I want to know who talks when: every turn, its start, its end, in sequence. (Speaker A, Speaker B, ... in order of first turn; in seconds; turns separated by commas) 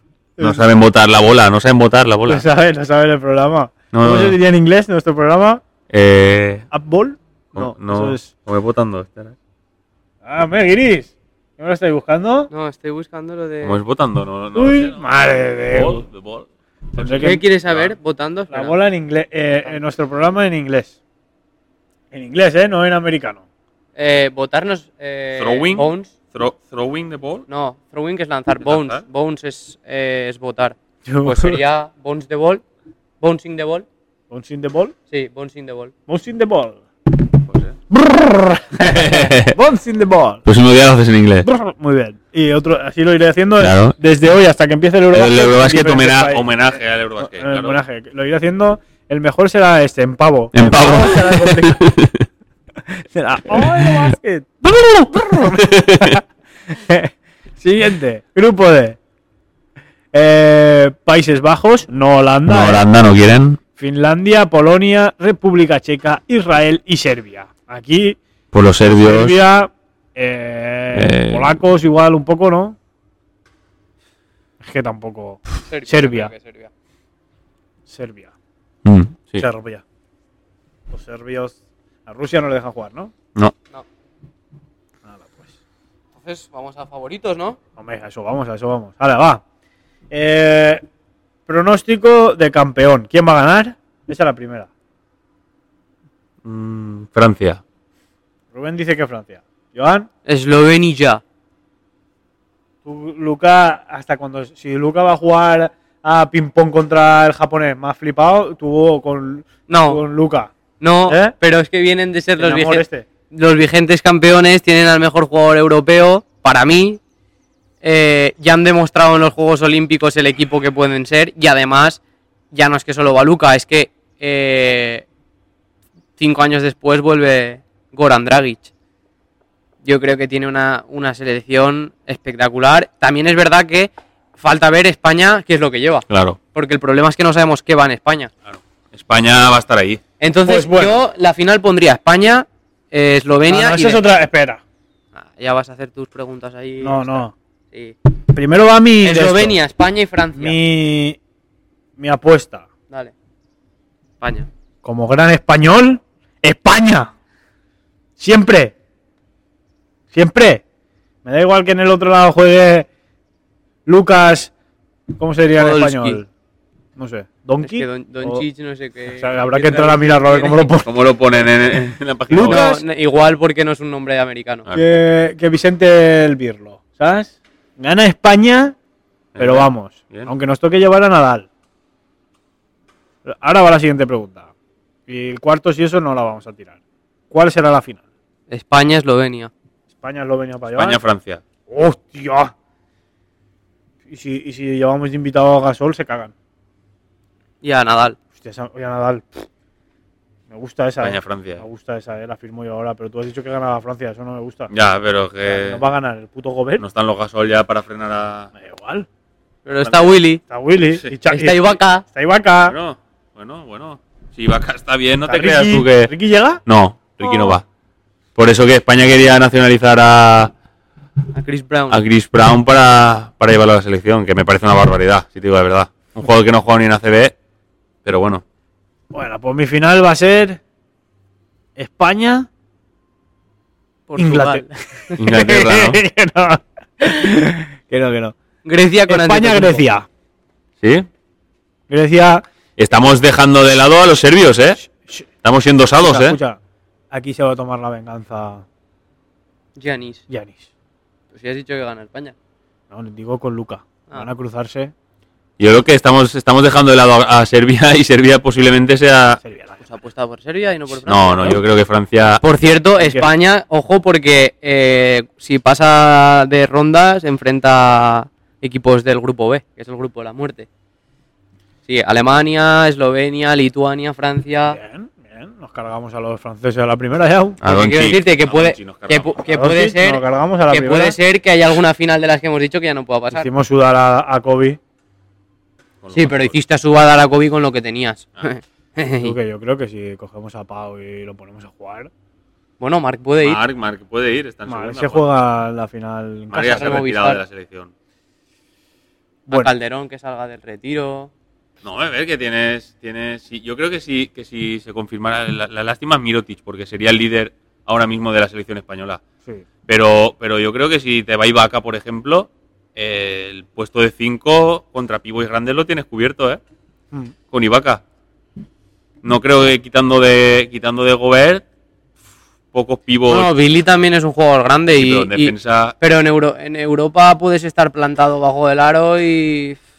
Speaker A: 0.4-0.6, Speaker B: 0.4-2.4, Speaker A: 2.3-5.6, Speaker B: 3.9-4.3, Speaker B: 5.9-6.7, Speaker A: 6.7-8.3, Speaker B: 7.5-9.3, Speaker A: 10.2-12.5, Speaker C: 12.5-13.8, Speaker B: 13.6-17.9, Speaker A: 14.5-16.0, Speaker A: 16.9-17.4, Speaker C: 17.2-18.8, Speaker A: 18.5-20.9, Speaker A: 22.1-23.4, Speaker C: 23.9-26.1, Speaker B: 25.4-27.4, Speaker C: 27.5-32.6, Speaker B: 28.6-29.0, Speaker A: 31.0-31.6, Speaker C: 33.2-33.9, Speaker A: 34.3-34.9, Speaker C: 35.1-35.9, Speaker A: 36.1-36.8, Speaker B: 37.5-37.8, Speaker A: 37.9-40.4, Speaker B: 38.8-39.6, Speaker B: 40.4-41.5, Speaker A: 41.4-51.8, Speaker B: 43.6-44.0, Speaker B: 45.1-47.8, Speaker B: 50.5-52.2, Speaker A: 52.9-59.0, Speaker B: 53.6-54.0, Speaker B: 55.4-56.2, Speaker A: 60.1-62.8, Speaker B: 62.5-63.6, Speaker A: 63.8-68.2, Speaker B: 68.5-69.4, Speaker A: 68.8-72.8, Speaker B: 70.9-71.5, Speaker A: 74.6-76.3, Speaker C: 75.7-76.7, Speaker A: 77.9-78.3, Speaker B: 78.8-79.5, Speaker A: 79.4-79.8, Speaker A: 80.9-83.1, Speaker A: 85.0-85.5, Speaker C: 86.2-87.6, Speaker A: 87.8-89.4, Speaker A: 90.1-90.8, Speaker A: 91.5-94.7, Speaker B: 96.4-97.6, Speaker A: 98.5-100.1, Speaker C: 100.3-101.2, Speaker A: 102.8-110.5, Speaker C: 109.7-110.0, Speaker C: 110.8-117.0, Speaker A: 111.1-111.3, Speaker A: 112.4-113.0, Speaker C: 117.8-122.0, Speaker C: 122.5-125.0, Speaker C: 126.2-128.7, Speaker C: 129.8-138.3, Speaker B: 136.1-136.4, Speaker B: 138.4-140.0, Speaker C: 140.2-144.0, Speaker A: 140.4-141.0, Speaker A: 143.4-144.6, Speaker C: 145.2-147.9, Speaker A: 146.8-147.3, Speaker A: 148.3-149.6, Speaker C: 149.0-150.6, Speaker A: 150.3-151.2, Speaker A: 152.0-152.7, Speaker C: 154.2-154.5, Speaker A: 154.8-157.1, Speaker A: 158.2-158.7, Speaker A: 160.1-160.6, Speaker A: 161.2-162.9, Speaker A: 163.8-164.5, Speaker A: 165.2-166.3, Speaker C: 165.6-166.2, Speaker A: 167.0-168.4, Speaker C: 167.6-170.7, Speaker A: 169.1-170.9, Speaker B: 170.8-172.6, Speaker A: 172.3-172.8, Speaker C: 172.4-174.7, Speaker B: 174.7-174.9, Speaker A: 174.7-178.8, Speaker B: 179.3-180.3, Speaker A: 179.4-181.5, Speaker A: 183.2-184.5, Speaker A: 185.1-186.8, Speaker A: 187.3-188.0, Speaker C: 188.5-189.5, Speaker A: 189.9-191.0, Speaker B: 190.7-191.4, Speaker A: 191.7-192.5, Speaker A: 194.1-196.3, Speaker C: 197.6-198.2, Speaker A: 198.3-199.4, Speaker A: 200.5-204.7, Speaker B: 201.0-201.6, Speaker B: 204.7-205.8, Speaker A: 205.4-206.8, Speaker B: 206.8-208.5, Speaker A: 208.6-209.1, Speaker C: 209.6-210.4, Speaker B: 209.8-210.2, Speaker A: 210.5-212.8, Speaker C: 211.3-212.0, Speaker B: 212.7-216.1, Speaker A: 215.2-216.6, Speaker B: 216.7-217.6, Speaker B: 218.3-220.5, Speaker C: 221.3-222.0, Speaker B: 221.9-227.3, Speaker B: 228.0-228.4, Speaker A: 229.1-230.6, Speaker A: 231.8-232.5, Speaker C: 234.1-235.1, Speaker A: 234.2-238.3, Speaker B: 235.2-236.0, Speaker C: 238.6-239.8, Speaker A: 239.1-240.1, Speaker B: 240.8-241.1, Speaker A: 241.9-242.4, Speaker B: 242.8-244.8, Speaker A: 244.8-245.3, Speaker B: 245.4-246.4, Speaker A: 246.0-246.6, Speaker A: 247.1-248.6, Speaker C: 249.7-250.2, Speaker A: 250.3-250.7, Speaker C: 251.3-252.3, Speaker A: 252.9-254.9, Speaker B: 255.6-259.4, Speaker A: 259.4-259.8, Speaker C: 259.8-261.6, Speaker B: 261.1-262.4, Speaker C: 262.4-270.7, Speaker A: 263.0-263.3, Speaker C: 271.8-274.8, Speaker A: 274.7-277.6, Speaker B: 277.6-279.4, Speaker C: 277.6-283.5, Speaker A: 279.5-281.2, Speaker A: 283.3-284.8, Speaker B: 286.0-286.5, Speaker C: 286.1-289.4, Speaker A: 289.2-292.1, Speaker C: 292.8-293.6, Speaker B: 293.4-295.3, Speaker A: 294.7-297.0, Speaker B: 296.5-297.9, Speaker C: 296.6-297.4, Speaker C: 299.5-301.3, Speaker B: 301.8-309.2, Speaker B: 309.9-316.6, Speaker B: 317.5-318.0, Speaker B: 319.2-321.6, Speaker B: 322.7-323.5, Speaker C: 323.3-329.8, Speaker B: 324.9-325.9